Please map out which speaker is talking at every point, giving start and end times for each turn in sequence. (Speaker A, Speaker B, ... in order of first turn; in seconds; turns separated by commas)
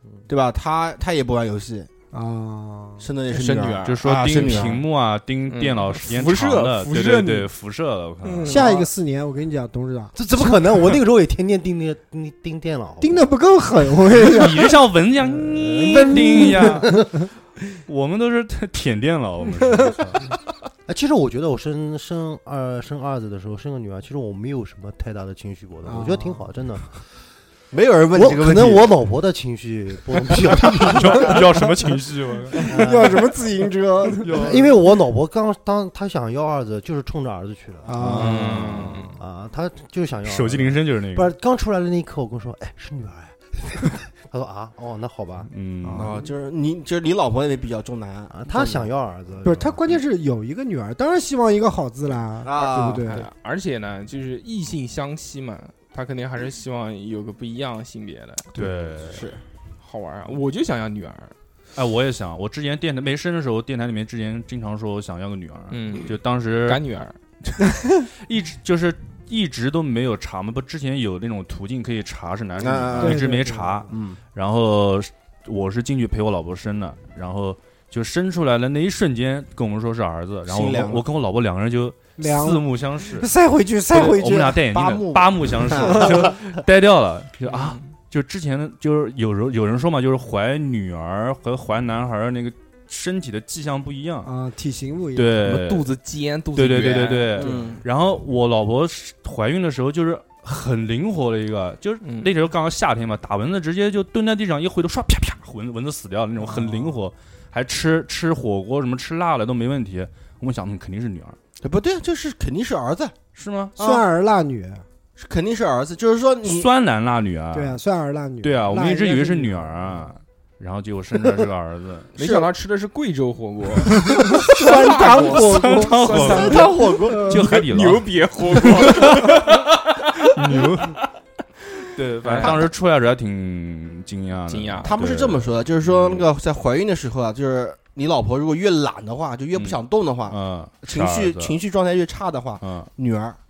Speaker A: 0.3-1.9, Speaker B: 2.1-3.1, Speaker A: 3.0-4.8, Speaker C: 3.3-4.0, Speaker D: 3.9-8.6, Speaker C: 5.5-7.5, Speaker C: 8.3-8.8, Speaker A: 8.4-8.9, Speaker B: 8.4-10.8, Speaker E: 10.2-13.3, Speaker B: 13.0-14.8, Speaker D: 14.2-17.1, Speaker E: 15.3-17.1, Speaker B: 16.1-16.8, Speaker D: 17.9-20.2, Speaker E: 20.9-27.0, Speaker B: 25.9-26.5, Speaker A: 27.7-28.9, Speaker E: 28.1-31.6, Speaker D: 30.8-32.9, Speaker B: 30.9-31.9, Speaker B: 32.5-34.4, Speaker E: 32.6-33.4, Speaker D: 34.1-34.7, Speaker E: 34.2-38.2, Speaker B: 37.8-38.9, Speaker D: 38.0-39.1, Speaker C: 38.1-39.1, Speaker E: 39.2-45.5, Speaker D: 40.2-41.3, Speaker D: 45.5-46.2, Speaker B: 45.9-46.3, Speaker A: 45.9-48.9, Speaker E: 48.3-49.9, Speaker B: 49.4-53.3, Speaker A: 52.4-53.1, Speaker C: 53.1-58.7, Speaker D: 58.5-59.2, Speaker A: 59.0-59.4, Speaker C: 59.8-61.3, Speaker D: 61.8-66.8, Speaker C: 65.7-67.2, Speaker D: 67.4-83.3, Speaker A: 72.6-73.4, Speaker B: 73.0-73.9, Speaker A: 73.9-74.2, Speaker A: 80.5-81.0, Speaker B: 82.2-84.7, Speaker D: 83.9-94.3, Speaker A: 84.7-86.4, Speaker B: 85.8-86.3, Speaker C: 87.5-87.8, Speaker B: 94.2-95.5, Speaker D: 95.2-95.9, Speaker C: 95.4-97.6, Speaker D: 96.5-111.4, Speaker A: 97.4-97.8, Speaker C: 102.0-102.3, Speaker B: 106.4-107.0, Speaker A: 111.6-113.2, Speaker D: 113.3-113.8, Speaker A: 113.8-114.0, Speaker B: 113.8-114.8, Speaker A: 115.2-116.7, Speaker D: 116.4-117.8, Speaker B: 117.5-120.0, Speaker D: 118.4-122.1, Speaker A: 122.2-122.5, Speaker C: 122.2-124.0, Speaker D: 123.9-129.6, Speaker B: 124.2-127.6, Speaker C: 124.6-129.5, Speaker A: 126.2-127.3, Speaker D: 130.3-131.0, Speaker D: 131.9-136.3, Speaker C: 132.2-132.7, Speaker A: 132.3-132.7, Speaker C: 134.5-135.0, Speaker A: 134.8-143.4, Speaker D: 139.5-141.6, Speaker D: 142.6-142.9